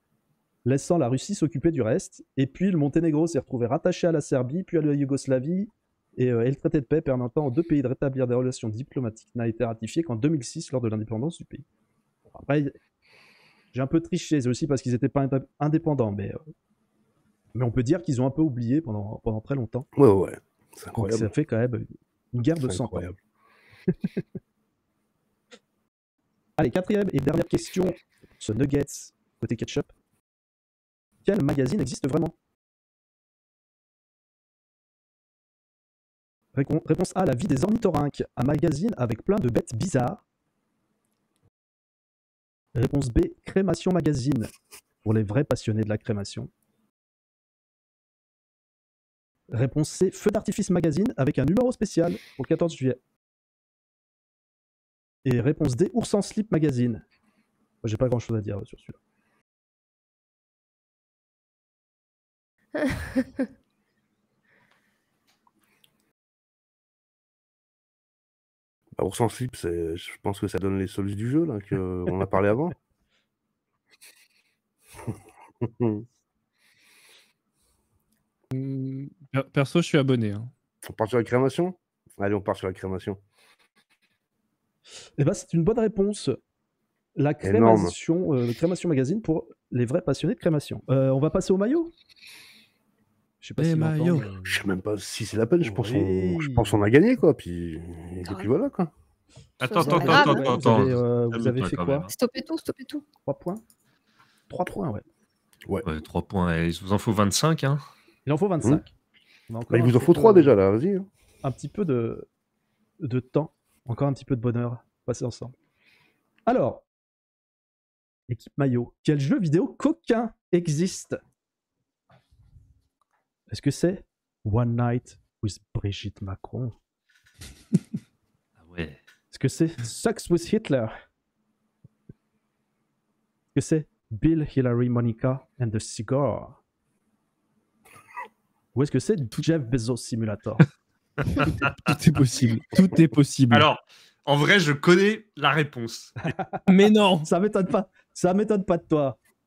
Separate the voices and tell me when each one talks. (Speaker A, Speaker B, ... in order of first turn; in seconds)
Speaker A: 0.6-11.6, 12.3-12.8, 13.7-16.4, 17.5-19.9, 20.9-23.0, 23.9-24.2, 26.6-29.9, 31.2-32.3, 36.5-40.2, 42.7-44.5, 45.0-46.5, 49.5-53.0, 55.2-57.0, 57.8-59.0, 85.2-86.4, 87.2-91.9, 93.4-94.6, 95.6-96.8, 99.8-102.1, 103.2-103.6, 104.5-105.0, 108.2-108.9, 109.5-110.5, 111.4-112.3, 113.0-115.5, 116.5-116.8, 118.3-121.2, 123.5-126.8, 129.3-131.0, 133.5-136.6, 138.7-140.7, 146.3-146.6, 147.2-149.2
Speaker B: 19.9-21.3, 22.6-23.2, 69.0-72.8, 75.0-76.0, 80.8-83.2, 87.4-87.9, 94.4-98.9, 109.7-111.1
Speaker C: 62.8-63.2, 99.7-100.7, 102.1-103.1
Speaker D: 78.5-80.5, 93.6-94.3, 141.4-143.7, 146.7-147.3
Speaker E: 99.6-102.1, 105.8-107.8, 128.6-129.0, 141.4-141.7, 143.5-146.2